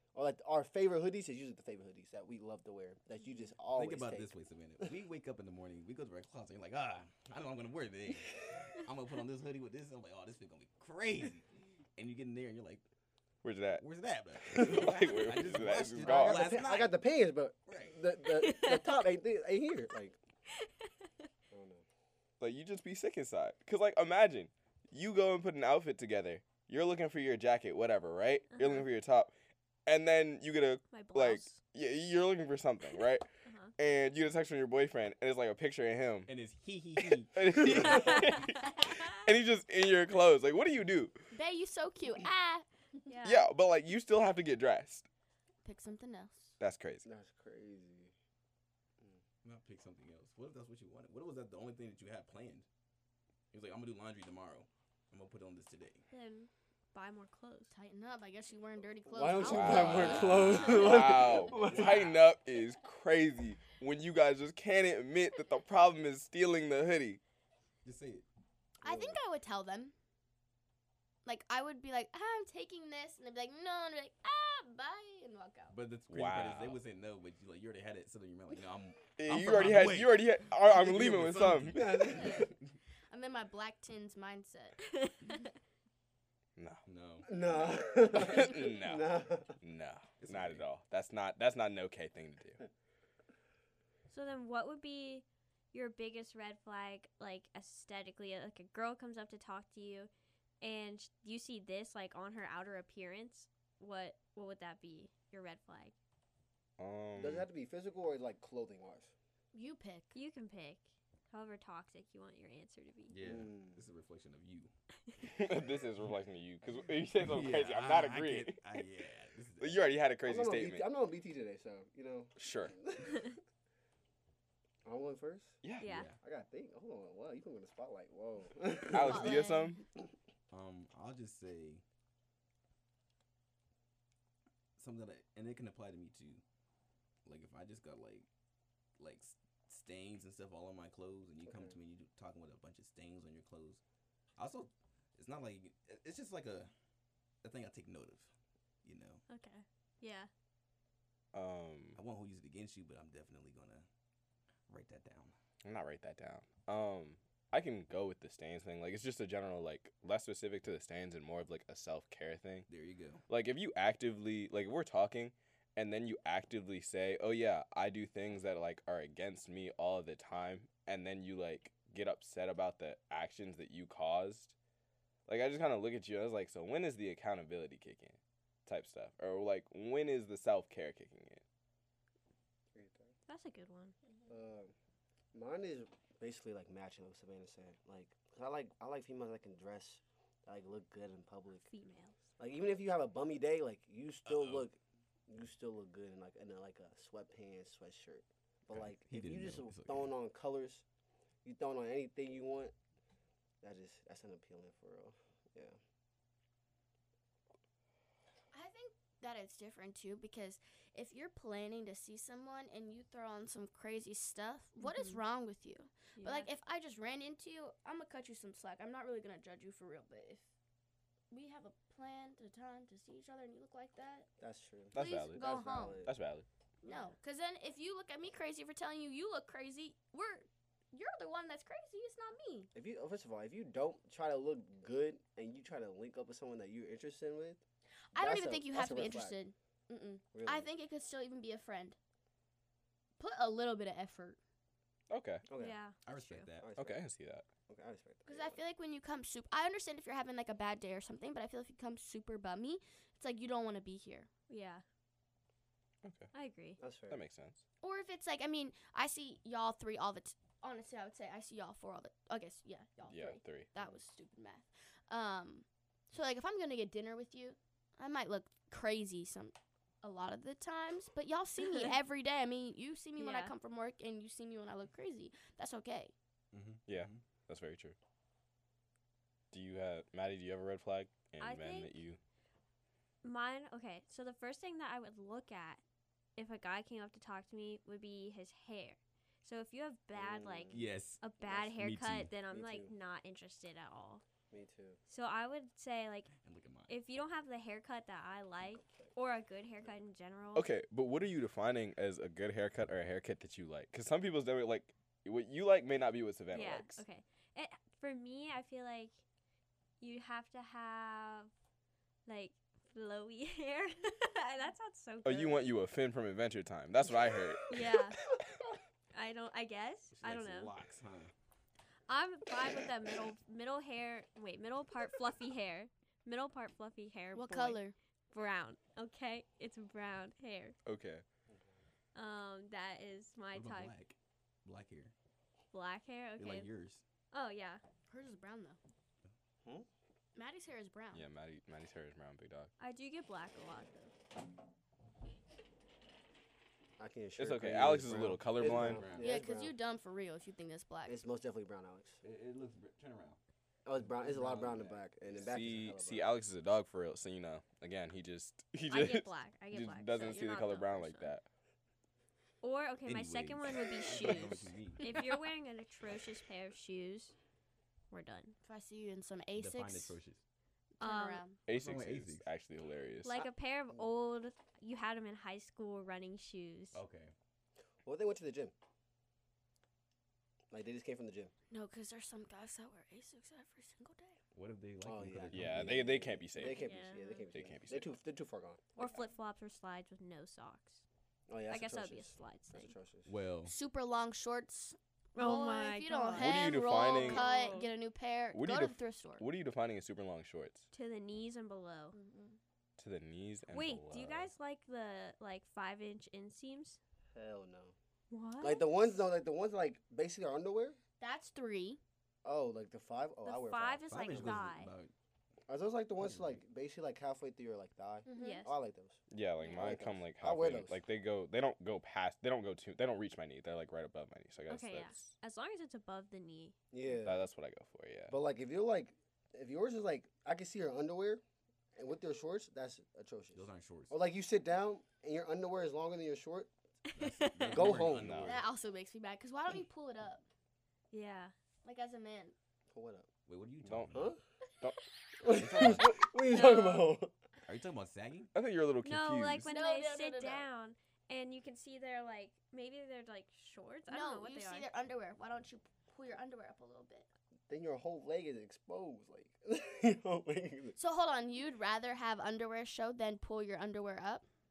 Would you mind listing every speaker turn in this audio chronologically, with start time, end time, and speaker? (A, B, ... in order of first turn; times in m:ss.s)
0:00.1-0:04.9 A
0:03.8-0:12.8 B
0:13.4-0:13.8 C
0:13.8-0:17.0 B
0:14.5-0:14.9 A
0:14.6-0:16.6 C
0:16.1-0:20.2 A
0:17.7-0:18.0 B
0:18.4-0:19.0 D
0:20.6-0:21.1 D
0:21.5-0:21.8 A
0:22.4-0:29.3 C
0:28.5-0:28.9 D
0:29.9-0:33.3 C
0:30.9-0:31.6 D
0:33.4-0:33.7 D
0:33.8-0:36.3 C
0:36.3-0:38.4 B
0:37.0-0:41.2 C
0:37.8-0:39.2 D
0:41.3-0:42.7 E
0:43.1-0:43.5 D
0:43.2-0:45.1 C
0:45.6-0:46.6 E
0:46.6-0:47.0 C
0:47.0-0:48.1 A
0:49.4-0:52.7 B
0:53.5-0:56.1 B
0:56.1-0:57.8 D
0:57.7-1:00.2 E
0:59.1-1:02.1 A
0:59.4-1:07.2 C
0:59.6-1:01.4 D
0:59.9-1:00.9 B
1:01.5-1:02.2 B
1:07.8-1:08.2 B
1:08.8-1:09.2 A
1:08.8-1:09.9 E
1:11.2-1:15.8 E
1:15.7-1:22.8 B
1:16.1-1:16.8 C
1:19.2-1:22.2 C
1:21.7-1:22.5 A
1:23.1-1:24.9 E
1:26.6-1:26.8 C
1:26.9-1:27.8 B
1:27.3-1:29.6 A
1:28.1-1:29.1 C
1:29.6-1:32.6 C
1:30.2-1:30.7 B
1:34.1-1:40.1 D
1:40.6-1:45.9 D
1:46.8-1:47.5 C
1:47.2-1:49.1 A
1:49.5-1:50.2 E
1:50.1-1:53.2 D
1:53.1-1:54.7 B
1:53.2-1:53.8 A
1:55.3-1:58.6 C
1:56.8-2:00.0 B
1:59.6-2:00.8 C
2:00.2-2:03.3 A
2:02.4-2:02.8 C
2:04.8-2:05.6 A
2:05.6-2:05.9 C
2:05.8-2:06.1 D
2:05.8-2:06.2 B
2:06.2-2:09.5 A
2:08.9-2:09.8 C
2:09.0-2:09.8 E
2:10.5-2:11.8 B
2:14.8-2:16.4 B
2:17.3-2:18.3 B
2:19.0-2:23.8 B
2:21.4-2:21.8 A
2:24.4-2:26.7 B
2:27.4-2:28.3 B
2:28.8-2:29.2 B
2:29.3-2:30.3 D
2:31.3-2:32.0 C
2:32.0-2:33.9 B
2:34.7-2:35.4 B
2:35.6-2:42.7 C
2:42.7-2:43.2 B
2:43.3-2:54.6 C
2:55.3-3:01.4 C
3:02.7-3:03.1 A
3:03.3-3:04.0 D
3:04.3-3:04.7 A
3:05.3-3:11.7 A
3:11.6-3:12.2 D
3:12.4-3:20.8 A
3:14.2-3:14.7 B
3:18.7-3:20.1 B
3:21.4-3:22.7 A
3:23.6-3:25.8 A
3:28.5-3:40.5 E
3:34.8-3:35.2 D
3:36.2-3:36.5 D
3:41.3-3:44.3 E
3:44.4-3:46.2 A
3:44.9-3:46.5 C
3:45.0-3:46.1 E
3:46.8-3:52.7 E
3:46.9-3:47.1 D
3:52.8-3:57.6 A
3:58.1-4:02.0 E
3:58.1-3:59.4 A
4:00.3-4:00.7 A
4:03.2-4:04.4 E
4:05.1-4:05.4 C
4:05.5-4:05.8 A
4:05.6-4:06.5 D
4:06.0-4:06.7 B
4:06.6-4:07.0 A
4:06.8-4:07.5 C
4:07.7-4:08.6 A
4:08.3-4:14.3 E
4:14.5-4:14.8 D
4:16.0-4:16.3 C
4:16.3-4:16.8 D
4:16.8-4:17.2 A
4:17.1-4:17.6 C
4:17.8-4:36.1 E
4:23.1-4:23.7 C
4:33.2-4:33.5 D
4:36.5-4:37.2 B
4:36.9-4:38.0 C
4:39.5-4:42.2 C
4:41.4-4:42.0 D
4:43.2-4:45.8 D
4:46.4-4:54.2 D
4:50.2-4:50.9 A
4:50.7-4:52.3 B
4:52.5-4:52.9 A
4:54.5-4:55.0 A
4:55.1-4:56.3 D
4:56.4-4:56.9 B
4:56.9-5:00.7 D
4:58.6-4:59.1 A
5:00.6-5:07.0 C
5:06.5-5:09.2 D
5:10.0-5:11.5 D
5:12.3-5:15.7 D
5:15.2-5:17.7 C
5:17.7-5:18.2 D
5:19.1-5:20.7 D
5:20.1-5:21.3 B
5:22.1-5:30.8 D
5:27.3-5:28.0 E
5:30.9-5:31.2 C
5:31.5-5:31.8 A
5:32.2-5:34.0 D
5:33.5-5:35.1 B
5:35.7-5:36.7 D
5:36.4-5:37.0 B
5:37.3-5:37.8 D
5:38.1-5:38.8 E
5:40.4-5:41.3 E
5:41.1-5:42.7 C
5:42.8-5:44.1 D
5:47.0-5:49.8 A
5:47.4-5:49.1 C
5:47.8-5:49.4 B
5:49.2-5:51.2 E
5:51.1-5:52.2 A
5:52.2-5:53.4 B
5:53.8-5:56.2 A
5:54.0-5:55.0 B
5:55.4-6:01.4 C
5:58.9-6:01.4 D
6:02.6-6:07.4 D
6:03.1-6:05.0 B
6:08.1-6:08.6 D
6:08.6-6:10.2 E
6:09.6-6:10.4 B
6:11.0-6:11.6 E
6:11.0-6:11.4 D
6:11.7-6:13.5 C
6:11.7-6:12.5 B
6:13.2-6:17.0 D
6:16.9-6:17.3 B
6:18.0-6:18.7 A
6:20.7-6:21.5 A
6:21.7-6:24.4 E
6:24.5-6:26.2 B
6:25.0-6:28.8 A
6:25.5-6:26.9 C
6:26.6-6:27.4 D
6:27.5-6:28.1 C
6:29.0-6:31.0 D
6:31.5-6:33.3 A
6:31.7-6:32.9 D
6:33.3-6:33.8 B
6:33.7-6:39.5 E
6:35.4-6:37.9 D
6:36.4-6:37.5 C
6:38.5-6:40.8 C
6:40.9-6:42.2 D
6:42.1-6:42.6 E
6:43.0-6:44.5 C
6:43.7-6:47.0 D
6:47.3-6:48.0 A
6:48.3-6:48.9 D
6:48.6-6:51.0 A
6:51.2-6:52.0 E
6:52.4-6:54.6 A
6:53.4-6:54.9 D
6:54.1-6:55.1 B
6:55.7-7:01.0 A
6:56.2-6:56.6 B
6:58.3-6:58.7 E
6:58.4-6:58.8 D
6:59.3-7:05.3 C
7:04.7-7:06.8 D
7:06.9-7:07.5 A
7:07.1-7:08.4 C
7:08.3-7:11.4 A
7:12.0-7:16.7 A
7:13.5-7:14.2 B
7:17.2-7:18.6 B
7:17.2-7:17.8 D
7:17.7-7:18.6 A
7:18.1-7:18.6 C
7:18.5-7:20.4 E
7:21.1-7:21.5 D
7:21.8-7:22.6 E
7:22.9-7:23.3 A
7:23.5-7:24.3 B
7:23.9-7:24.2 C
7:24.1-7:24.4 A
7:25.4-7:27.3 A
7:25.5-7:26.2 B
7:26.5-7:27.1 E
7:27.6-7:28.5 B
7:28.5-7:29.7 C
7:29.0-7:34.9 D
7:29.6-7:30.7 E
7:34.1-7:37.3 E
7:37.7-7:41.0 A
7:41.0-7:44.5 E